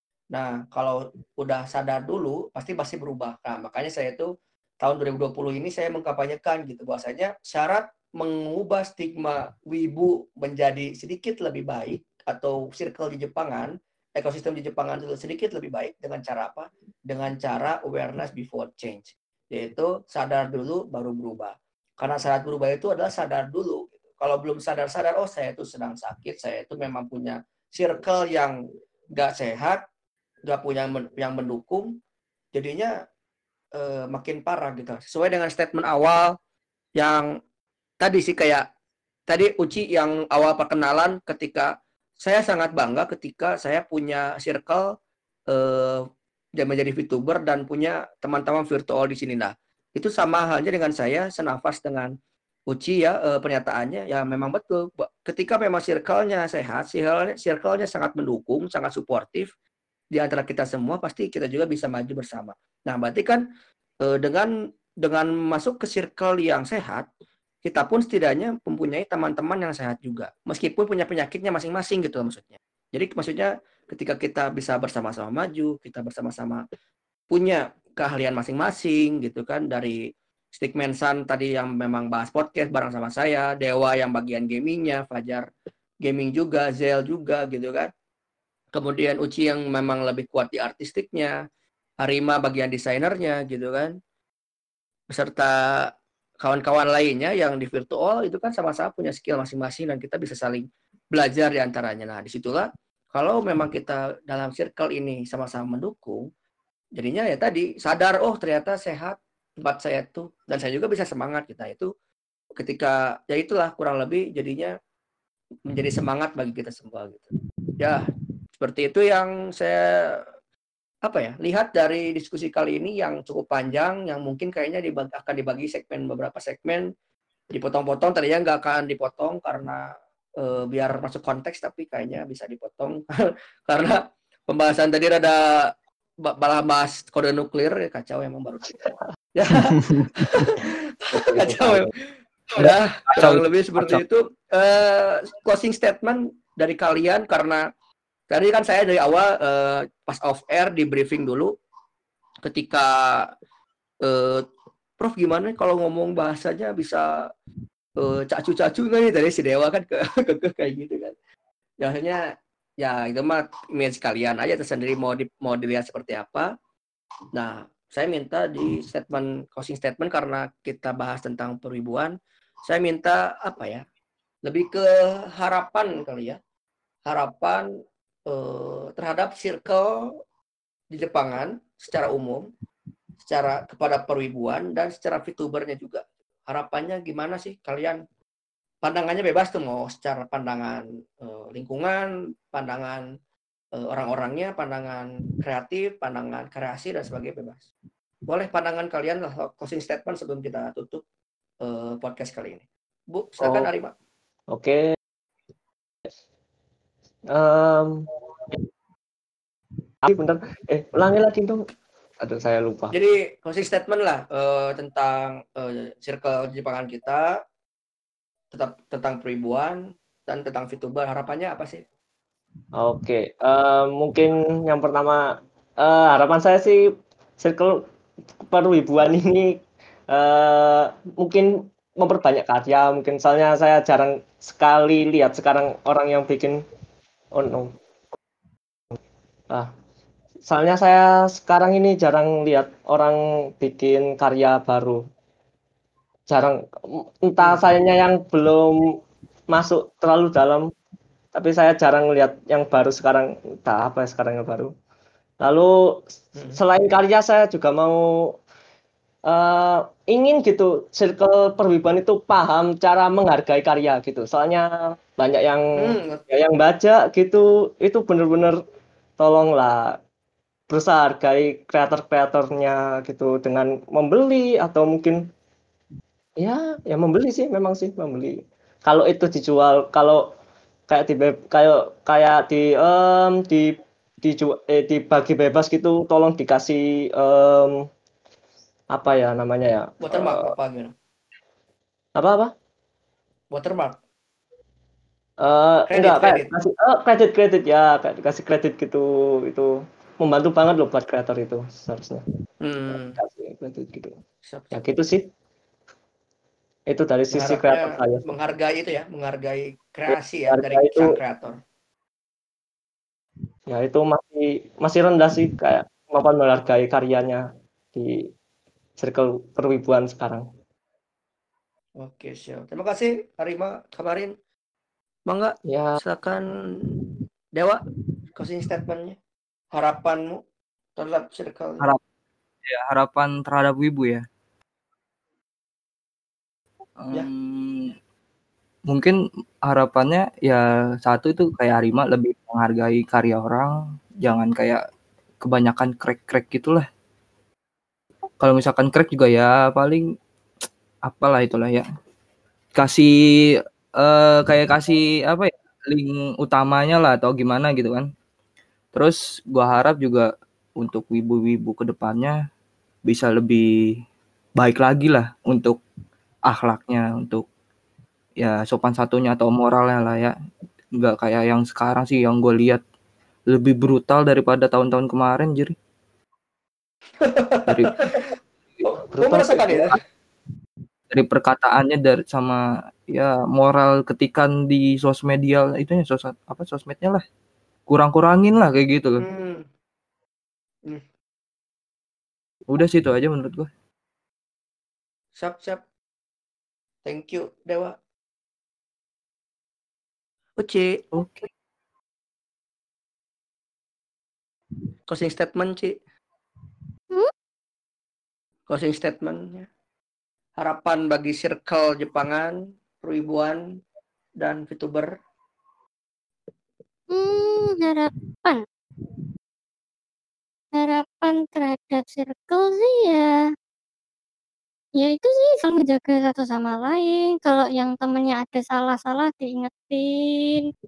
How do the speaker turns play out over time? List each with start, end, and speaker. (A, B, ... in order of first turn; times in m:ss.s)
0:00.3-0:28.6 A
0:29.1-0:29.8 A
0:30.4-0:31.9 A
0:32.5-0:32.9 A
0:33.7-0:36.4 A
0:37.0-0:37.3 A
0:38.0-0:38.6 A
0:39.3-0:44.9 A
0:45.5-0:46.0 A
0:46.6-0:52.1 A
0:52.7-0:59.5 A
1:00.1-1:03.4 A
1:04.0-1:04.5 A
1:05.0-1:07.1 A
1:07.6-1:16.6 A
1:17.3-1:20.0 A
1:20.5-1:25.5 A
1:26.0-1:27.9 A
1:28.7-1:31.3 A
1:32.0-1:33.9 A
1:35.1-1:46.2 A
1:47.0-1:51.9 A
1:52.6-1:54.7 A
1:55.7-2:00.2 A
2:01.0-2:06.9 A
2:07.5-2:13.0 A
2:13.7-2:15.7 A
2:16.2-2:18.8 A
2:19.3-2:21.9 A
2:21.1-2:21.9 B
2:22.5-2:27.6 A
2:22.6-2:24.0 C
2:28.3-2:31.5 A
2:32.4-2:33.3 A
2:34.0-2:34.4 A
2:35.0-2:37.0 A
2:38.0-2:41.1 A
2:41.8-2:42.2 A
2:42.8-2:46.5 A
2:47.3-2:53.8 A
2:54.4-2:56.4 A
2:57.1-2:57.6 A
2:58.3-3:00.1 A
3:00.9-3:02.4 A
3:03.2-3:08.0 A
3:08.8-3:13.0 A
3:13.8-3:17.6 A
3:18.3-3:21.0 A
3:21.6-3:23.9 A
3:23.4-3:23.7 B
3:24.5-3:24.8 B
3:27.3-3:28.1 B
3:30.0-3:31.6 B
3:32.2-3:32.9 B
3:32.9-3:37.4 A
3:38.5-3:41.8 A
3:42.8-3:45.2 B
3:45.8-3:46.8 B
3:47.4-3:47.8 B
3:48.4-3:56.6 B
3:57.3-3:57.7 B
4:00.4-4:05.0 B
4:06.3-4:09.0 B
4:09.5-4:10.7 B
4:11.3-4:14.7 B
4:15.4-4:18.4 B
4:19.3-4:28.6 B
4:25.8-4:26.2 A
4:29.2-4:30.0 B
4:30.7-4:35.2 B
4:36.4-4:40.2 B
4:40.9-4:47.8 B
4:48.9-4:50.5 B
4:50.0-4:50.9 A
4:52.2-4:52.5 B
4:53.5-4:54.0 A
4:55.4-5:02.2 B
4:55.9-4:56.5 A
5:02.6-5:03.2 A
5:02.9-5:04.2 B
5:04.4-5:04.8 A
5:04.7-5:05.2 B
5:06.9-5:08.3 B
5:07.3-5:11.6 A
5:10.1-5:11.2 B
5:13.7-5:17.4 B
5:17.9-5:18.3 B
5:19.0-5:20.5 B
5:22.0-5:24.3 A
5:25.3-5:27.0 A
5:25.6-5:26.0 B
5:27.6-5:27.8 A
5:28.4-5:29.2 A
5:29.7-5:30.4 A
5:31.0-5:31.9 A
5:32.6-5:34.2 C
5:37.0-5:37.9 C
5:38.9-5:44.8 C
5:45.4-5:46.8 C
5:48.4-5:50.0 C
5:51.0-5:51.8 C
5:52.7-5:53.1 C
5:54.0-5:58.1 C
5:58.9-6:00.3 C
6:00.8-6:02.4 C
6:03.1-6:03.6 C
6:04.6-6:05.8 C
6:06.5-6:07.4 C
6:08.4-6:10.3 C
6:11.0-6:12.8 C
6:13.5-6:15.7 C
6:17.2-6:18.2 A
6:17.7-6:18.2 C
6:19.1-6:19.9 B
6:19.2-6:19.9 A
6:21.1-6:27.2 C
6:27.9-6:29.2 C
6:29.2-6:29.6 A
6:32.7-6:33.7 C
6:35.4-6:35.8 A
6:37.0-6:37.9 A
6:40.6-6:41.0 A
6:41.1-6:41.5 C
6:45.1-6:46.0 A
6:48.7-6:49.7 A
6:50.6-6:53.6 A
6:54.4-6:55.1 A
6:57.1-6:58.6 D
7:00.7-7:03.4 D
7:05.0-7:10.7 D